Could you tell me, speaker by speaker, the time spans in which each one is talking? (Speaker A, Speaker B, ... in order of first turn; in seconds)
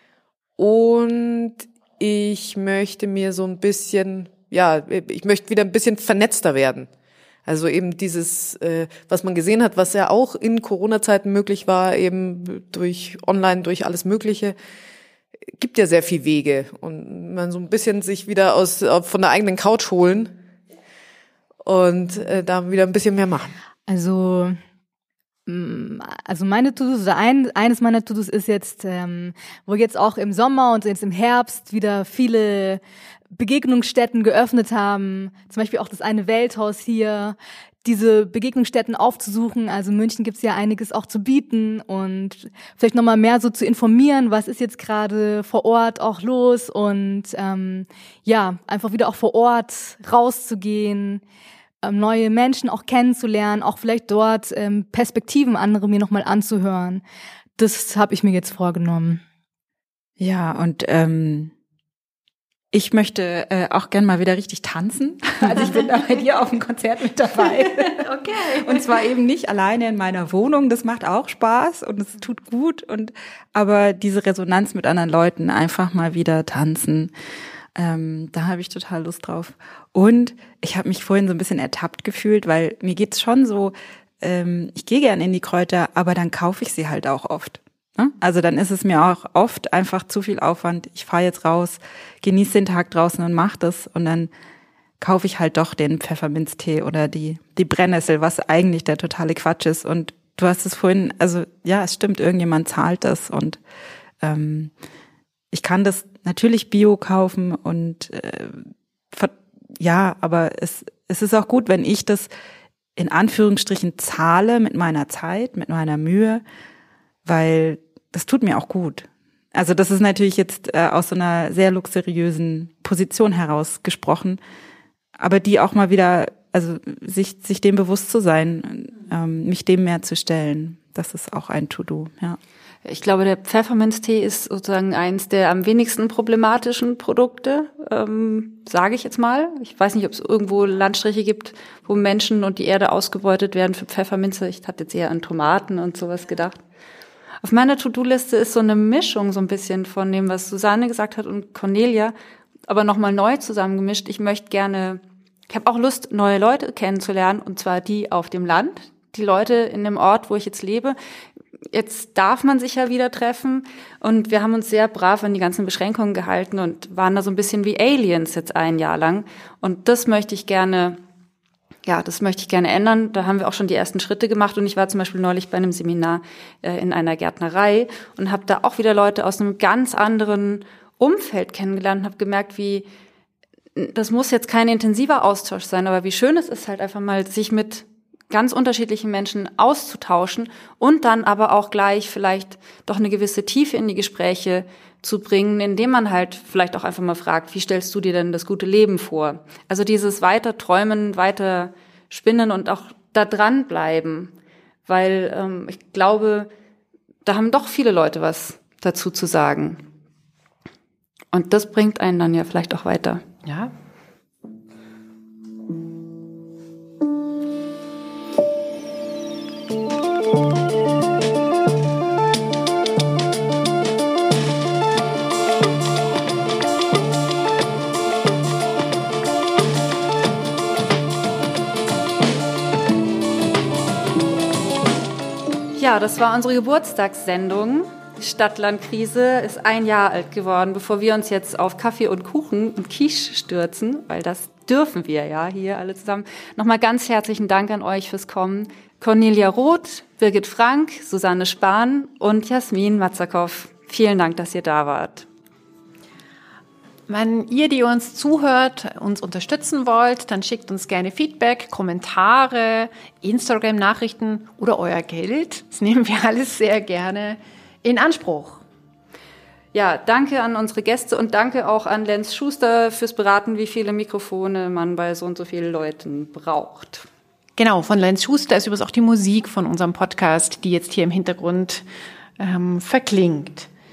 Speaker A: 0.6-6.9, 7.5-14.6, 15.6-20.3, 21.6-23.5
Speaker B: 23.9-24.6, 25.5-32.8, 33.4-51.2, 51.8-57.0, 57.6-59.2
Speaker C: 60.2-61.5, 62.7-77.1, 77.8-94.3, 95.0-103.6, 104.2-104.7, 105.5-112.3, 113.0-116.4, 117.3-124.4, 125.2-132.4
Speaker D: 68.1-68.5, 213.5-213.7, 257.1-268.6, 277.6-281.9, 282.4-283.7
Speaker E: 132.9-146.6, 147.4-152.1, 152.7-161.0, 161.7-171.0, 171.9-182.9, 183.8-204.3, 204.9-206.5, 207.2-209.9, 211.3-213.2, 235.8-255.3, 269.7-277.1